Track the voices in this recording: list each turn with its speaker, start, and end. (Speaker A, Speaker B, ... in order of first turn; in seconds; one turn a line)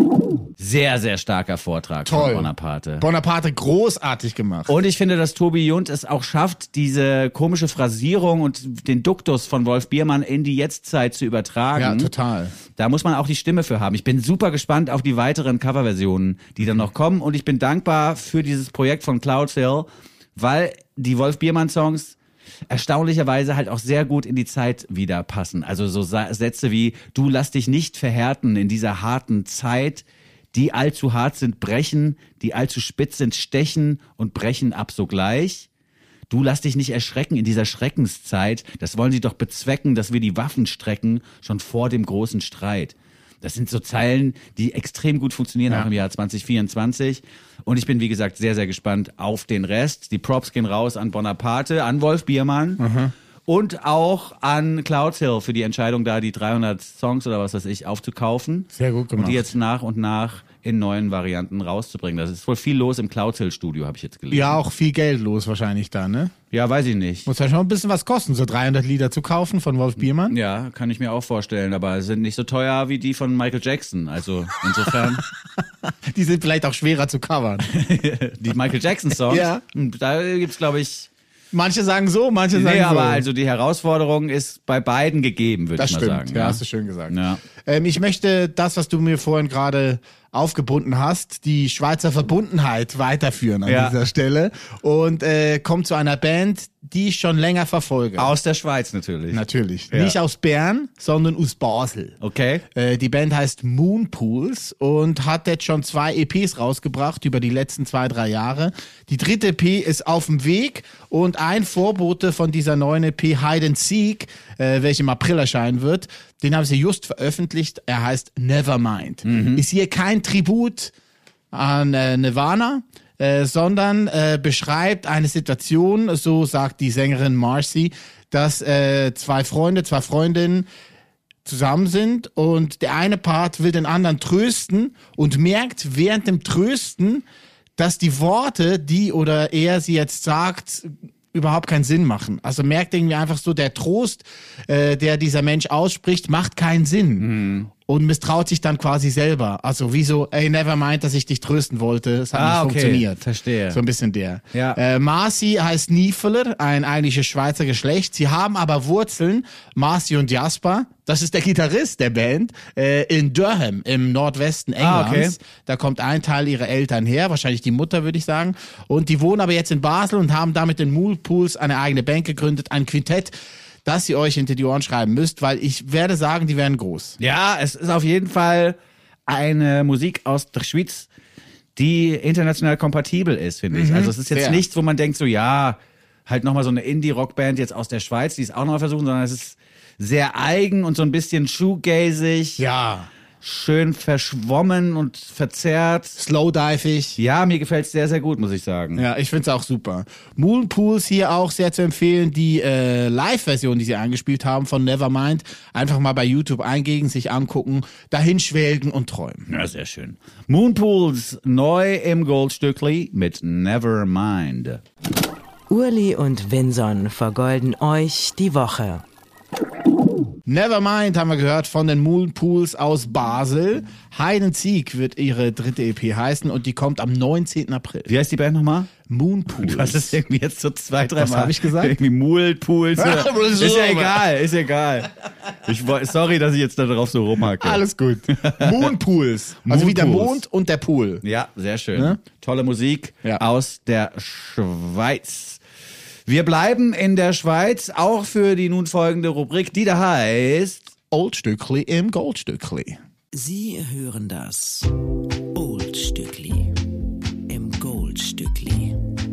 Speaker A: 0.6-3.0
Speaker B: 2.0-4.8
Speaker A: 4.7-12.1
Speaker B: 11.8-12.6
Speaker A: 12.8-22.1
Speaker A: 22.7-35.7
Speaker A: 36.3-52.8
Speaker B: 52.8-53.1
Speaker A: 53.5-64.6
Speaker B: 58.7-59.5
Speaker B: 64.3-66.3
Speaker A: 66.5-67.3
Speaker B: 67.3-70.4
Speaker A: 70.3-75.2
Speaker B: 76.1-77.7
Speaker A: 77.7-81.1
Speaker B: 79.3-79.6
Speaker B: 81.5-83.3
Speaker A: 82.5-87.4
Speaker B: 85.8-98.3
Speaker A: 93.7-94.0
Speaker A: 98.2-100.2
Speaker B: 99.3-102.2
Speaker A: 102.2-102.6
Speaker B: 102.8-120.9
Speaker A: 119.3-119.6
Speaker B: 121.5-130.7
Speaker B: 131.4-137.3
Speaker B: 137.8-147.3
Speaker A: 147.2-147.7
Speaker B: 147.9-173.3
Speaker A: 152.3-153.8
Speaker A: 154.5-154.8
Speaker A: 164.8-165.4
Speaker B: 173.8-177.2
Speaker A: 177.2-181.1
Speaker A: 181.8-192.6
Speaker B: 183.7-184.7
Speaker B: 192.6-193.1
Speaker A: 193.4-196.2
Speaker B: 196.2-197.2
Speaker A: 197.2-199.1
Speaker B: 199.0-209.5
Speaker A: 209.5-214.8
Speaker C: 215.7-219.0
Speaker B: 220.5-228.1
Speaker A: 228.1-228.9
Speaker B: 229.1-230.2
Speaker A: 229.6-235.1
Speaker B: 231.2-232.0
Speaker B: 233.0-234.3
Speaker A: 235.6-238.9
Speaker B: 237.6-241.2
Speaker A: 239.7-240.4
Speaker A: 241.2-245.6
Speaker A: 246.3-250.9
Speaker B: 251.1-253.0
Speaker C: 253.3-254.9
Speaker C: 255.5-256.7
Speaker C: 257.5-259.0